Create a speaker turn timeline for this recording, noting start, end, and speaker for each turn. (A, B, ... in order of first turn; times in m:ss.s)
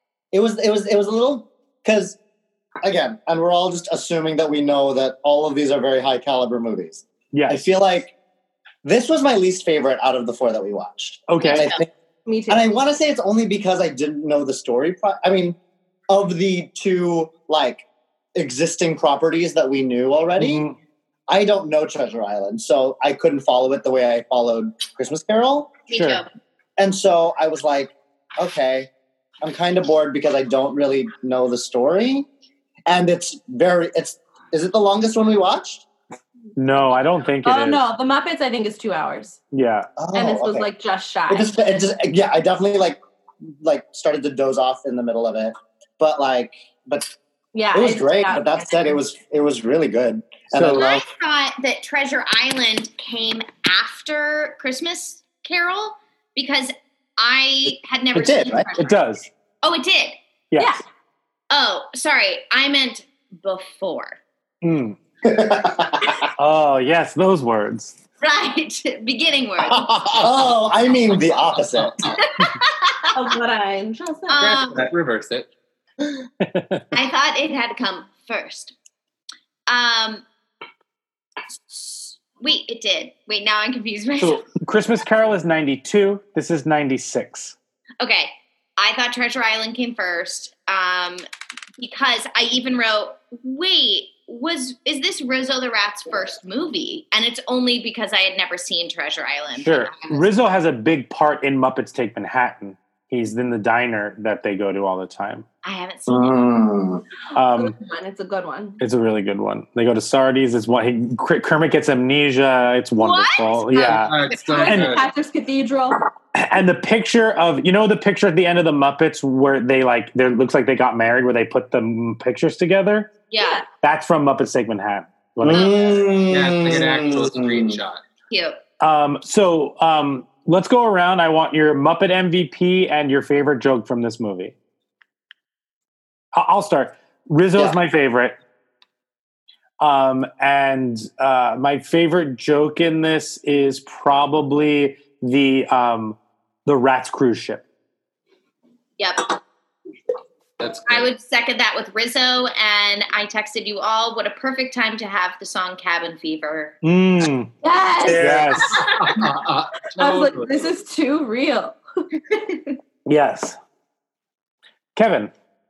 0:00.3-0:02.2 A
0:02.8-0:08.1 A
0:07.3-0:07.6 B
0:08.8-0:11.9 A
0:11.3-0:11.7 B
0:11.4-0:11.8 C
0:12.2-0:12.7 D
0:12.5-0:15.6 A
0:16.1-0:20.6 A
0:20.4-0:20.8 B
0:21.3-0:25.8 A
0:25.9-0:26.3 C
0:25.9-0:26.2 B
0:26.8-0:28.9 A
0:29.4-0:32.3 A
0:32.8-0:35.8 A
0:36.6-0:37.8 B
0:37.4-0:39.4 D
0:39.5-0:39.9 B
0:40.0-0:40.7 A
0:40.1-0:41.5 D
0:41.3-0:43.0 A
0:43.5-0:47.1 A
0:47.5-0:49.0 D
0:47.7-0:51.0 A
0:50.5-0:50.8 B
0:50.7-0:59.0 C
0:58.1-0:58.7 A
0:58.8-0:59.3 B
0:59.6-1:00.2 C
1:00.5-1:00.8 B
1:00.6-1:00.8 D
1:01.5-1:04.2 C
1:04.6-1:05.0 B
1:05.2-1:06.1 A
1:06.4-1:08.0 B
1:08.2-1:10.2 C
1:09.9-1:12.1 A
1:12.0-1:13.1 C
1:13.1-1:14.6 D
1:14.3-1:14.9 C
1:14.4-1:15.5 E
1:16.4-1:16.8 B
1:16.9-1:18.7 C
1:19.7-1:20.2 C
1:22.4-1:24.4 C
1:24.2-1:27.5 B
1:28.0-1:31.2 C
1:31.8-1:40.3 C
1:39.6-1:45.4 B
1:45.6-1:46.6 C
1:46.1-1:47.0 A
1:47.3-1:47.7 B
1:47.5-1:48.8 D
1:48.8-1:54.1 B
1:53.0-1:54.0 C
1:53.8-1:55.1 E
1:54.3-1:56.0 D
1:54.6-1:55.0 B
1:56.3-2:03.1 B
2:03.3-2:03.6 C
2:03.4-2:03.6 D
2:03.8-2:05.8 B
2:05.4-2:07.8 A
2:05.5-2:06.0 C
2:06.3-2:08.0 E
2:08.3-2:08.6 C
2:08.8-2:14.5 B
2:16.3-2:18.4 B
2:19.8-2:27.6 B
2:29.0-2:29.4 C
2:30.6-2:31.1 E
2:30.8-2:36.8 C
2:36.8-2:37.5 B
2:37.6-2:38.5 D
2:38.0-2:38.6 A
2:38.2-2:38.8 B
2:38.7-2:40.7 E
2:40.0-2:41.8 D
2:42.3-2:42.6 D
2:43.0-2:43.6 B
2:45.0-2:45.3 B